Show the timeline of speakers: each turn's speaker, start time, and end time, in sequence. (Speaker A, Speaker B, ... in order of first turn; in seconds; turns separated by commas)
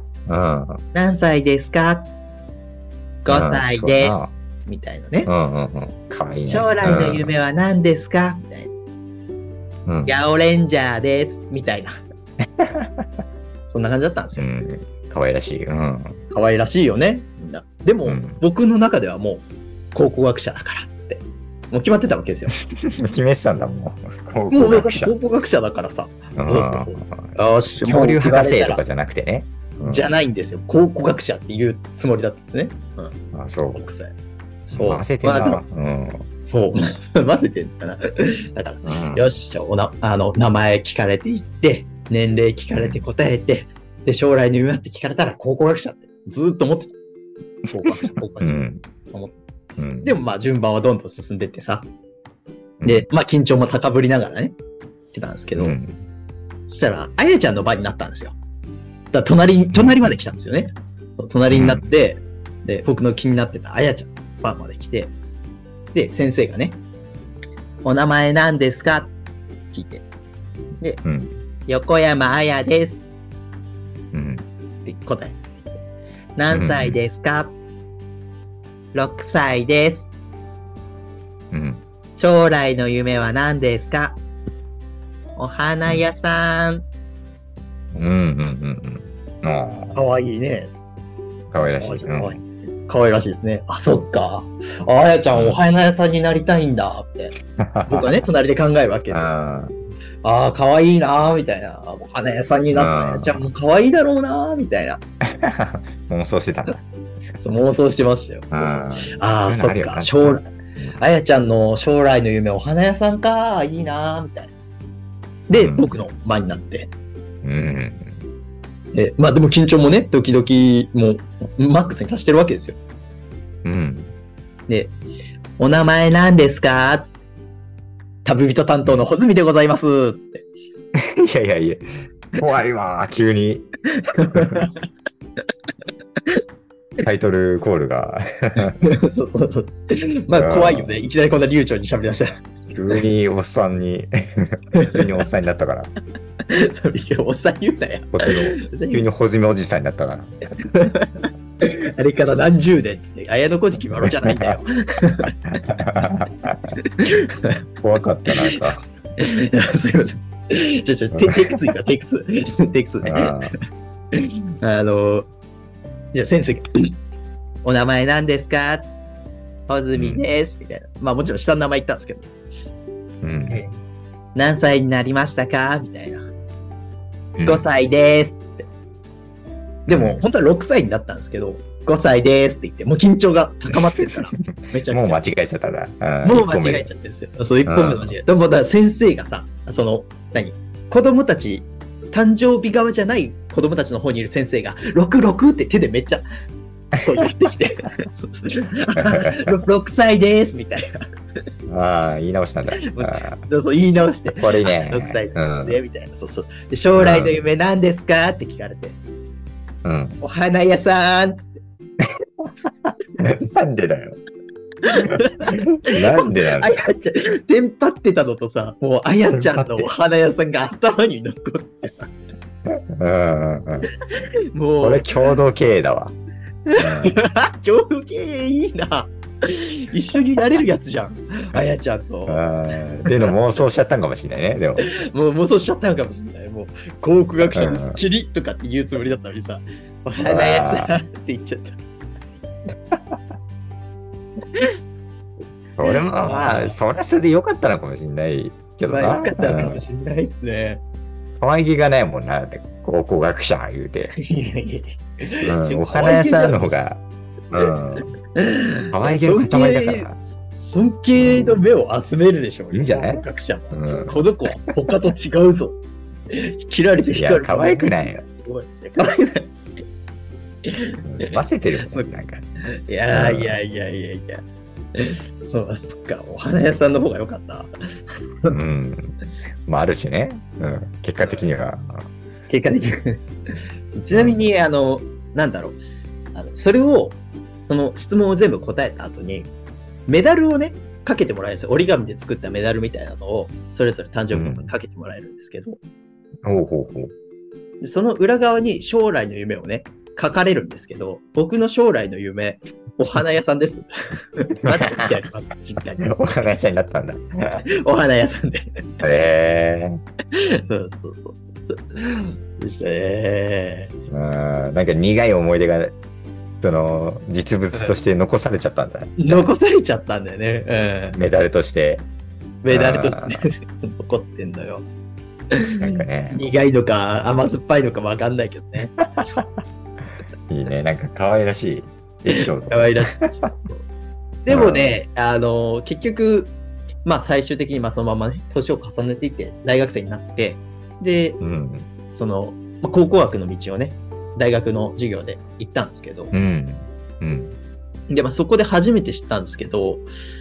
Speaker A: 0.3-0.8, Speaker B: 0.9-2.1, Speaker B: 3.2-5.3, Speaker A: 3.3-4.3, Speaker A: 5.3-7.3, Speaker B: 6.5-8.7, Speaker A: 9.9-10.2, Speaker B: 10.1-12.0, Speaker A: 12.6-13.1, Speaker B: 13.7-14.5, Speaker A: 14.4-16.2, Speaker B: 16.3-22.5, Speaker A: 18.1-18.4, Speaker A: 22.7-25.1, Speaker B: 24.5-28.8, Speaker A: 26.4-30.1, Speaker B: 29.8-33.1, Speaker A: 33.3-33.9, Speaker B: 33.7-34.1, Speaker B: 34.7-35.6, Speaker A: 34.7-36.3, Speaker B: 36.4-47.0, Speaker A: 38.8-39.2, Speaker A: 42.8-43.0, Speaker B: 47.7-49.4, Speaker A: 47.8-48.8, Speaker A: 49.8-50.1, Speaker B: 50.0-51.9, Speaker A: 52.8-53.1, Speaker B: 52.9-54.5, Speaker B: 55.1-55.8, Speaker A: 55.6-56.1, Speaker B: 56.7-58.4, Speaker B: 59.1-65.1, Speaker A: 59.7-60.1, Speaker A: 61.5-61.9, Speaker B: 65.9-66.8, Speaker B: 67.8-69.1, Speaker B: 69.7-70.1, Speaker A: 71.0-71.3, Speaker B: 71.7-73.1, Speaker A: 74.1-74.5, Speaker B: 74.8-75.4, Speaker B: 76.4-77.5, Speaker A: 76.5-77.0, Speaker B: 78.9-80.1, Speaker A: 81.5-81.8, Speaker B: 82.2-84.2, Speaker B: 85.4-86.9, Speaker A: 87.9-90.0, Speaker B: 89.9-90.8, Speaker A: 91.5-92.4, Speaker B: 91.8-97.3, Speaker A: 95.3-95.6, Speaker A: 97.6-98.2, Speaker B: 97.9-99.3, Speaker A: 99.1-99.8, Speaker B: 100.2-105.0, Speaker A: 102.7-103.5, Speaker A: 105.3-106.8, Speaker B: 107.4-114.5, Speaker A: 108.5-111.0, Speaker B: 115.5-116.9, Speaker A: 115.5-115.9, Speaker A: 117.4-118.2, Speaker B: 118.9-122.8, Speaker A: 123.6-124.1, Speaker B: 124.7-125.0, Speaker B: 125.6-127.2, Speaker B: 128.2-130.5, Speaker A: 131.0-133.7, Speaker B: 134.0-134.7, Speaker A: 134.3-134.7, Speaker A: 137.0-138.8, Speaker B: 138.8-142.5, Speaker A: 140.4-141.0, Speaker A: 142.7-145.9, Speaker B: 144.7-145.1, Speaker B: 146.5-149.1, Speaker A: 148.1-150.4, Speaker B: 150.7-155.3, Speaker A: 154.0-154.6, Speaker A: 155.4-156.8, Speaker B: 156.8-157.6, Speaker A: 157.8-158.8, Speaker B: 158.3-163.5, Speaker A: 161.2-161.5, Speaker A: 163.0-163.5, Speaker B: 164.1-165.3, Speaker B: 166.1-166.9, Speaker B: 167.6-169.0, Speaker B: 169.7-172.3, Speaker A: 169.9-170.2, Speaker A: 173.2-173.6, Speaker B: 174.3-176.3, Speaker A: 177.4-177.7, Speaker B: 177.4-178.7, Speaker B: 179.9-185.2, Speaker A: 179.9-180.2, Speaker A: 184.4-186.9, Speaker B: 186.2-196.3, Speaker A: 187.7-188.1, Speaker B: 197.0-200.9, Speaker A: 199.0-199.5, Speaker A: 201.7-203.4, Speaker B: 202.8-209.0, Speaker A: 204.4-205.8, Speaker A: 207.0-207.4, Speaker A: 209.8-210.2, Speaker B: 210.2-211.6, Speaker A: 213.2-214.2, Speaker B: 214.8-222.1, Speaker A: 215.5-216.7, Speaker A: 219.3-219.9, Speaker A: 222.7-223.9, Speaker B: 224.5-225.1, Speaker A: 224.8-226.2, Speaker B: 226.7-232.4, Speaker A: 226.8-227.2, Speaker A: 232.3-234.9, Speaker B: 233.1-233.3, Speaker B: 234.8-241.8, Speaker A: 237.5-238.0, Speaker A: 240.2-240.9, Speaker A: 242.9-243.2, Speaker A: 245.8-249.8, Speaker B: 245.8-246.8, Speaker B: 248.9-250.8, Speaker A: 251.4-254.2, Speaker B: 254.2-256.8, Speaker A: 255.4-258.1, Speaker B: 258.4-265.8, Speaker A: 258.9-260.2, Speaker A: 261.2-261.6, Speaker A: 262.7-264.6, Speaker B: 266.3-269.5, Speaker A: 267.1-268.2, Speaker B: 270.6-272.1, Speaker A: 271.0-272.4, Speaker B: 272.6-274.4, Speaker A: 273.1-273.6, Speaker B: 274.9-277.7, Speaker A: 278.5-282.1, Speaker B: 282.5-283.2, Speaker B: 283.9-285.8, Speaker A: 284.1-284.4, Speaker B: 286.3-289.5, Speaker B: 290.1-295.8, Speaker A: 294.3-294.7, Speaker A: 296.4-297.1, Speaker B: 297.8-303.9, Speaker B: 304.4-306.1, Speaker A: 304.7-305.1, Speaker A: 306.0-307.6, Speaker B: 307.8-308.8, Speaker A: 309.0-310.0, Speaker B: 310.4-313.9, Speaker A: 314.1-316.0, Speaker A: 316.5-319.5, Speaker B: 319.2-321.2, Speaker A: 321.1-322.1, Speaker B: 322.6-324.9, Speaker A: 322.7-323.4, Speaker B: 325.5-328.9, Speaker A: 325.8-326.5, Speaker A: 329.0-329.6, Speaker A: 330.5-333.5, Speaker B: 332.3-333.9, Speaker B: 334.4-336.5, Speaker A: 334.5-334.9, Speaker B: 337.1-341.4, Speaker A: 341.4-341.9, Speaker B: 342.1-346.3, Speaker A: 346.3-347.6, Speaker B: 348.1-350.1